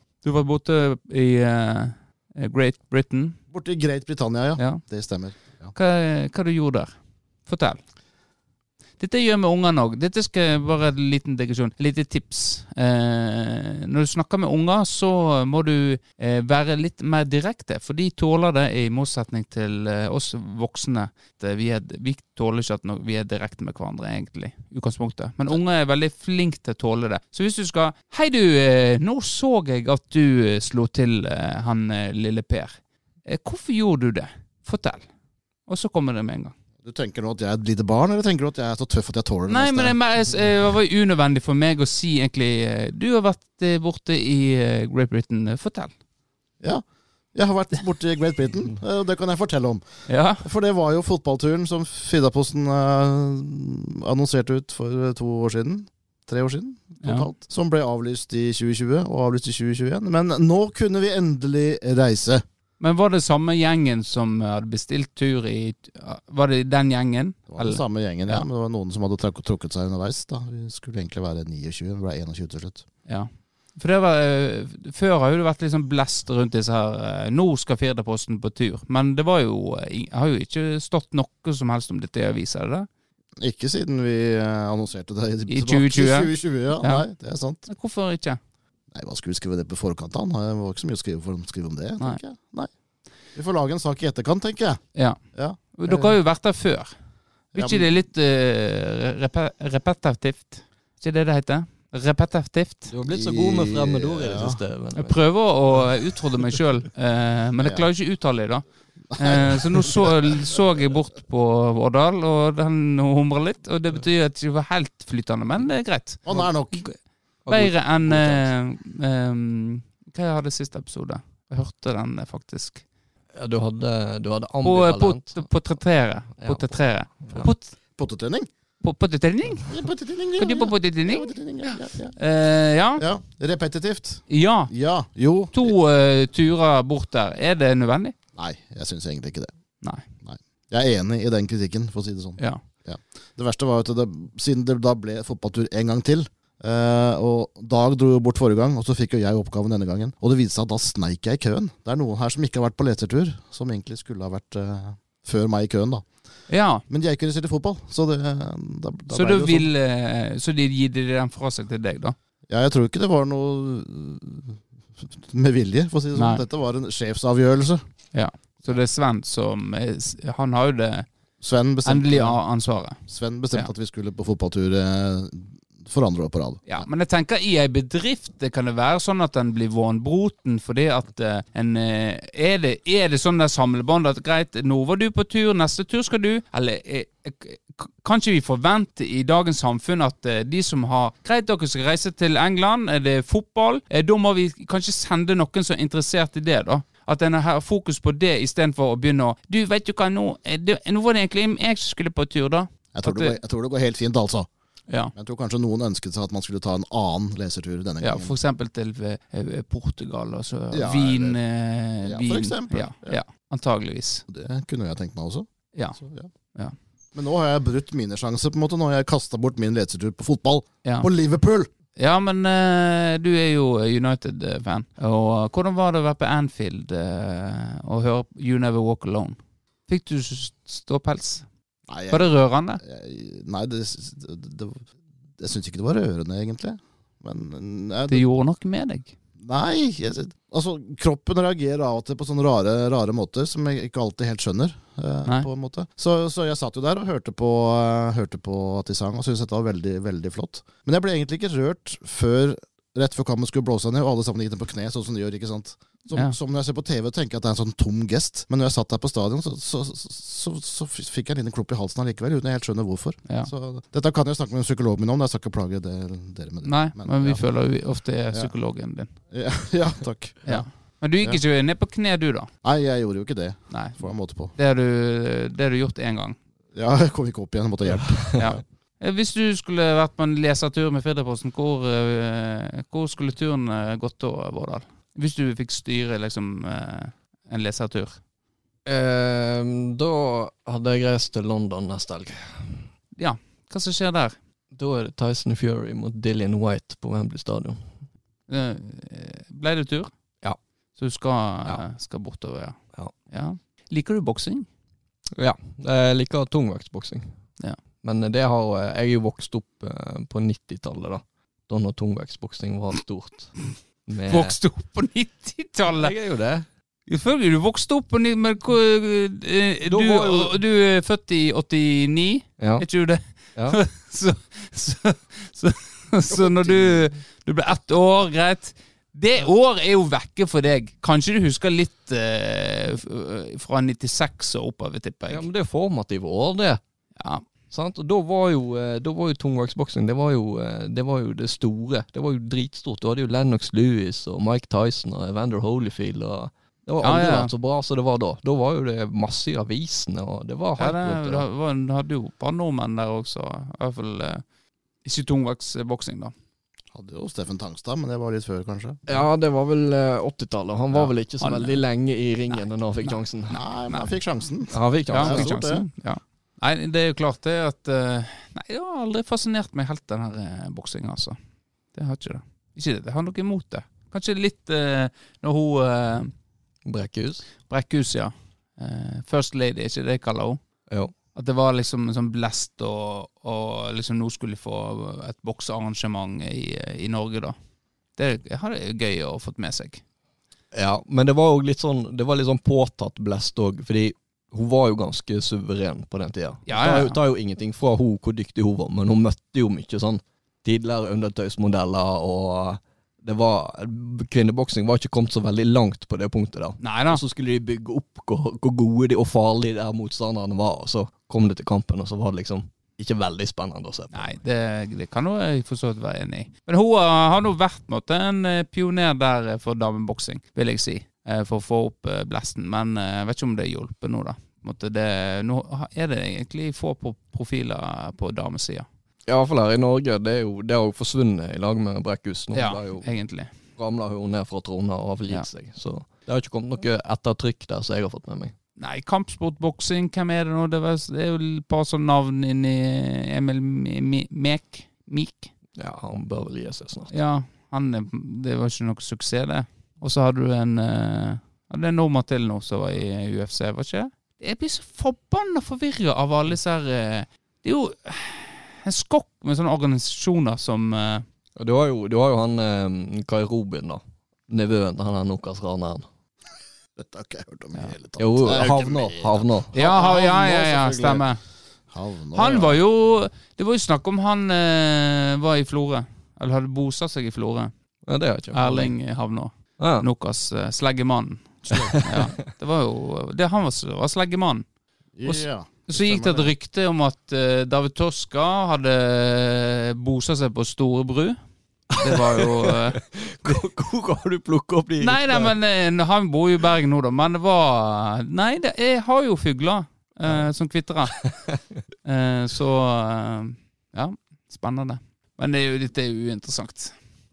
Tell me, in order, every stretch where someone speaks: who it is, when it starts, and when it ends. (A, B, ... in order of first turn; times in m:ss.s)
0:00.2-0:03.4 A
0:03.5-0:05.7 B
0:04.6-0:04.8 A
0:05.7-0:06.9 A
0:07.5-0:07.8 A
0:09.0-0:35.0 A
0:35.7-0:36.5 A
0:36.8-0:40.0 B
0:39.5-0:45.9 A
0:46.6-0:49.8 B
0:50.1-0:50.4 A
0:50.4-1:02.4 B
1:02.8-1:08.4 A
1:07.5-1:12.8 B
1:13.0-1:22.9 A
1:23.4-1:27.6 B
1:25.5-1:27.0 A
1:27.6-1:28.4 A
1:28.9-1:32.7 B
1:33.3-1:34.8 B
1:35.3-1:36.2 B
1:35.7-1:36.9 A
1:37.5-1:37.9 B
1:37.5-1:42.9 A
1:42.9-1:45.2 C
1:43.1-1:44.6 B
1:45.0-1:48.6 A
1:47.6-1:47.8 B
1:49.1-1:50.2 B
1:49.2-1:57.0 A
1:56.2-1:56.8 B
1:57.4-1:58.5 C
1:57.5-2:02.8 A
2:03.3-2:05.5 C
2:04.6-2:07.7 A
2:06.4-2:06.7 C
2:08.0-2:08.5 B
2:08.8-2:09.7 A
2:09.7-2:12.1 B
2:10.4-2:13.0 A
2:13.0-2:15.7 B
2:14.3-2:14.7 A
2:15.5-2:18.1 A
2:18.4-2:19.5 B
2:19.8-2:20.0 A
2:20.2-2:36.1 B
2:36.5-2:36.8 A
2:36.9-2:39.7 B
2:39.1-2:42.2 A
2:42.5-2:47.8 B
2:46.1-2:46.4 A
2:48.1-2:51.1 A
2:51.4-2:52.4 B
2:51.8-2:53.0 A
2:53.1-2:56.8 B
2:56.6-3:23.4 A
3:22.9-3:24.5 B
3:25.1-3:28.3 B
3:28.0-3:34.2 A
3:30.7-3:31.4 B
3:32.0-3:33.2 B
3:34.3-3:35.5 B
3:35.7-3:36.0 A
3:36.0-3:36.3 B
3:37.1-3:41.7 B
3:42.0-3:51.4 A
3:51.9-3:54.8 B
3:52.1-3:52.8 A
3:55.4-3:58.2 B
3:58.1-3:59.1 A
3:59.4-4:27.4 B
4:26.6-4:29.1 A
4:29.3-4:30.6 B
4:30.4-4:32.5 A
4:32.6-4:34.5 B
4:33.7-4:34.0 A
4:34.5-4:36.4 A
4:36.7-4:38.6 B
4:38.4-4:48.2 A
4:48.8-4:52.8 C
4:53.2-4:54.4 A
4:54.7-4:57.8 C
4:58.5-5:00.1 A
5:01.0-5:02.8 A
5:03.3-5:04.7 A
5:05.4-5:07.3 C
5:08.0-5:13.6 C
5:14.1-5:14.5 C
5:14.2-5:16.1 A
5:15.9-5:16.6 C
5:17.1-5:35.4 A
5:19.8-5:20.5 C
5:22.6-5:22.8 C
5:26.3-5:27.0 C
5:35.3-5:36.8 C
5:37.2-5:37.4 A
5:37.7-5:51.4 C
5:47.0-5:47.5 A
5:50.8-5:54.4 A
5:55.0-5:56.3 A
5:56.9-5:59.0 B
5:59.1-6:03.6 C
6:00.9-6:01.8 A
6:02.5-6:03.2 A
6:03.5-6:05.8 B
6:04.7-6:05.6 C
6:05.1-6:11.4 A
6:11.9-6:16.3 A
6:16.8-6:17.4 C
6:17.7-6:20.6 A
6:21.3-6:27.5 A
6:28.2-6:30.0 A
6:30.7-6:54.4 C
6:36.7-6:37.2 A
6:46.8-6:47.2 A
6:54.1-7:08.8 A
7:09.3-7:13.1 C
7:12.5-7:13.5 A
7:13.8-7:18.5 C
7:18.8-7:25.5 A
7:25.8-7:27.1 C
7:27.1-7:41.2 A
7:41.6-7:46.0 C
7:47.0-7:51.2 B
7:48.2-7:49.7 C
7:49.7-7:51.4 A
7:51.9-7:52.8 B
7:52.3-7:57.7 A
7:58.1-7:58.9 C
7:58.5-8:04.6 A
7:59.8-8:00.1 C
8:01.7-8:02.4 C
8:05.2-8:06.5 B
8:05.2-8:11.4 A
8:11.9-8:13.6 A
8:11.9-8:15.5 C
8:15.0-8:21.2 A
8:22.0-8:26.9 A